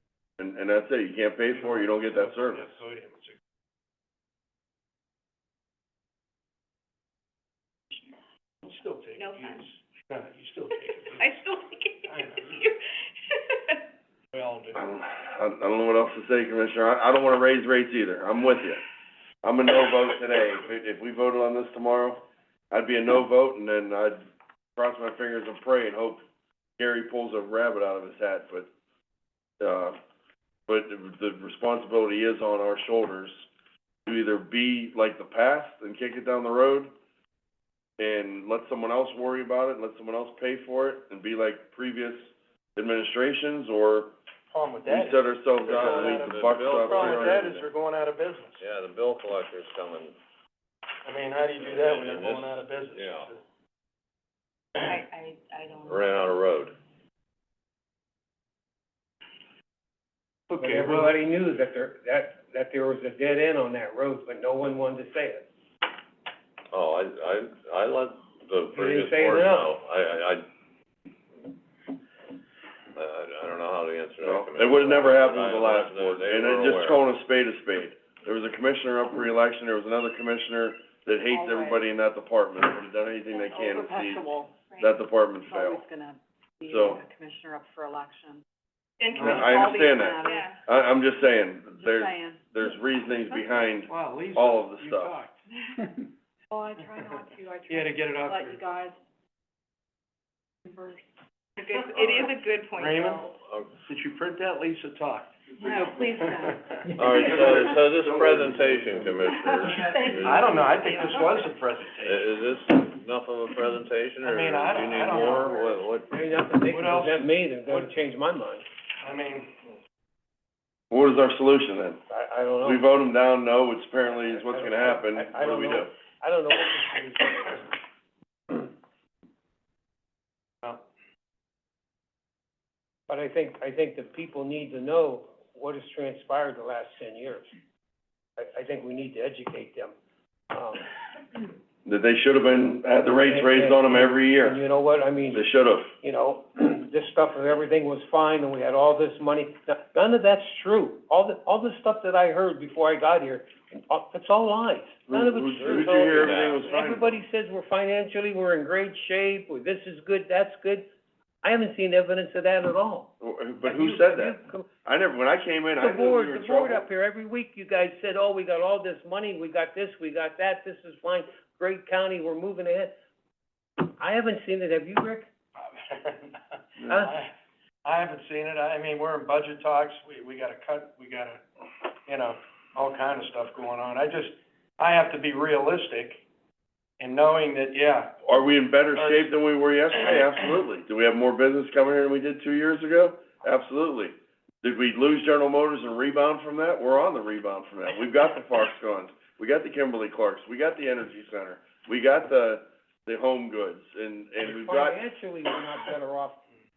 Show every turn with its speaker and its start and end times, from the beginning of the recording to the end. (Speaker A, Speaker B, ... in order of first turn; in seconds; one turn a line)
Speaker A: 0.4-2.7
Speaker B: 1.5-3.4
Speaker B: 8.6-11.4
Speaker C: 9.2-9.6
Speaker C: 10.7-13.8
Speaker B: 12.1-12.7
Speaker B: 14.3-14.8
Speaker A: 14.8-18.8
Speaker A: 19.4-24.2
Speaker A: 24.8-26.2
Speaker A: 26.8-28.7
Speaker A: 29.6-30.0
Speaker A: 30.7-33.5
Speaker A: 34.1-36.9
Speaker A: 38.0-44.2
Speaker B: 44.5-48.6
Speaker A: 44.9-47.5
Speaker D: 45.6-47.7
Speaker D: 48.6-50.2
Speaker B: 51.0-53.4
Speaker D: 51.6-53.3
Speaker C: 54.8-56.3
Speaker D: 55.9-56.8
Speaker B: 60.5-61.1
Speaker E: 60.6-65.5
Speaker D: 66.7-70.5
Speaker E: 68.8-69.7
Speaker D: 73.0-77.0
Speaker A: 74.2-84.3
Speaker F: 81.2-81.8
Speaker F: 83.3-84.8
Speaker A: 84.8-85.9
Speaker F: 85.4-88.4
Speaker A: 86.7-87.0
Speaker C: 89.0-90.6
Speaker B: 89.2-89.5
Speaker A: 89.2-95.2
Speaker F: 89.2-90.6
Speaker F: 91.8-92.7
Speaker B: 93.9-95.3
Speaker F: 96.5-99.0
Speaker B: 96.8-98.9
Speaker F: 100.7-101.0
Speaker C: 101.6-103.3
Speaker B: 102.8-103.3
Speaker D: 103.3-103.7
Speaker B: 103.8-105.3
Speaker F: 105.6-106.9
Speaker D: 106.9-110.5
Speaker A: 107.2-109.3
Speaker B: 109.6-112.4
Speaker C: 109.8-111.4
Speaker D: 112.0-116.1
Speaker B: 114.2-115.8
Speaker E: 116.1-118.7
Speaker B: 116.7-117.9
Speaker B: 119.0-119.5
Speaker A: 120.9-122.0
Speaker E: 122.1-122.8
Speaker A: 122.6-125.9
Speaker E: 124.3-127.7
Speaker E: 133.1-137.5
Speaker E: 138.4-139.9
Speaker E: 140.5-140.8
Speaker A: 141.8-144.6
Speaker E: 143.0-145.4
Speaker A: 145.3-145.9
Speaker E: 146.0-160.9
Speaker A: 155.1-157.0
Speaker D: 155.7-156.6
Speaker E: 161.4-163.1
Speaker A: 163.2-166.9
Speaker E: 163.6-164.7
Speaker E: 165.8-172.9
Speaker E: 173.8-175.3
Speaker B: 175.6-176.4
Speaker E: 176.8-177.2
Speaker B: 176.9-177.3
Speaker B: 177.8-181.4
Speaker B: 182.1-186.2
Speaker B: 187.0-188.2
Speaker A: 188.2-205.0
Speaker B: 189.0-189.4
Speaker E: 204.4-206.4